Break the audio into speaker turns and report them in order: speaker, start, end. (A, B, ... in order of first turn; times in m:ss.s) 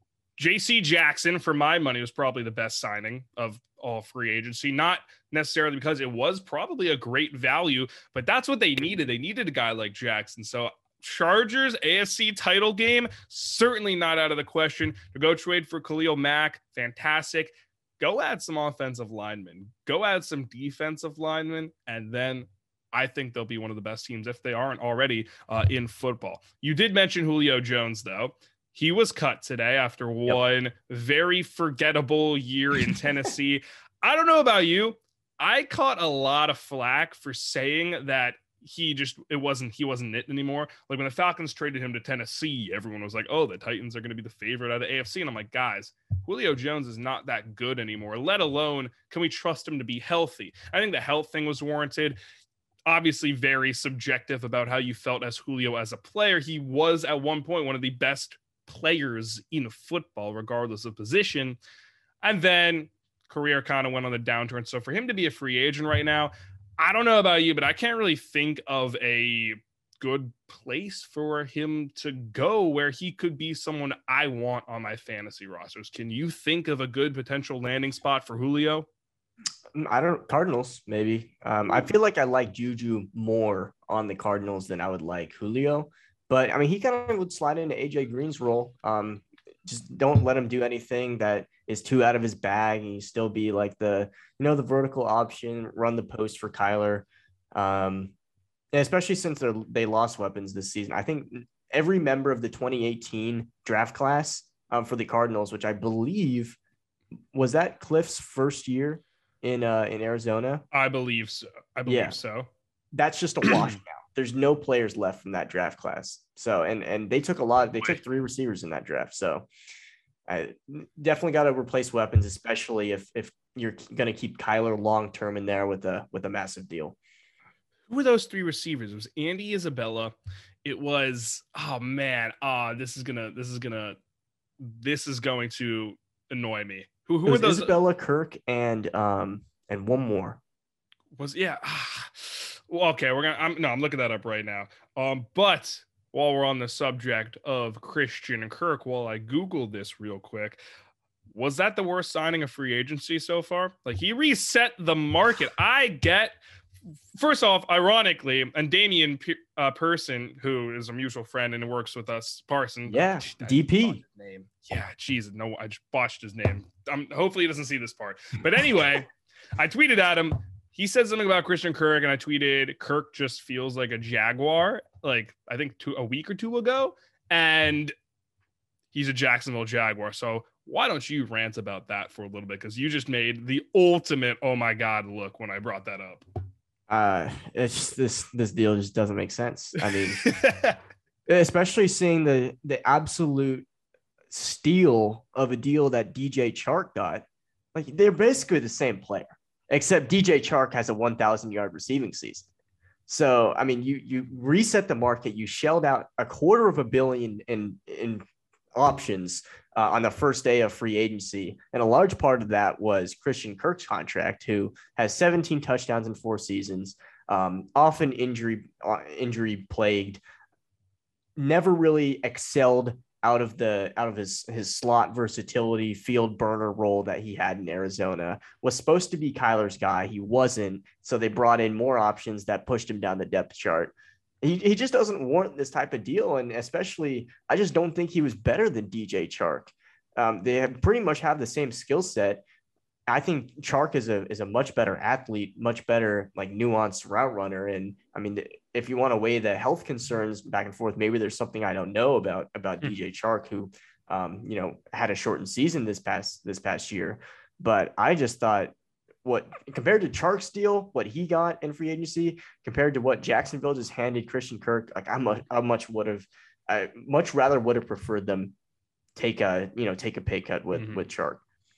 0:00.4-0:52.2 A
0:52.9-1:01.6 A
1:02.2-1:18.9 A
1:19.7-1:38.1 B
1:38.7-1:46.6 B
1:47.3-1:50.6 B
1:50.7-1:52.5 A
1:51.9-1:52.2 B
1:52.9-1:59.5 B
1:53.5-1:53.8 A
2:00.3-2:07.0 B
2:07.9-2:10.1 A
2:10.6-2:14.0 A
2:14.6-2:17.7 A
2:17.3-2:20.4 B
2:21.2-2:30.6 A
2:31.3-2:36.4 A
2:37.1-2:57.9 A
2:42.9-2:44.0 B
2:58.9-3:06.2 A
3:06.9-3:10.3 B
3:10.2-3:10.8 A
3:11.3-3:13.7 B
3:14.3-3:22.4 B
3:23.1-3:40.2 B
3:41.4-4:02.4 B
4:03.1-4:28.5 B
4:29.2-4:31.4 B
4:30.7-4:31.0 A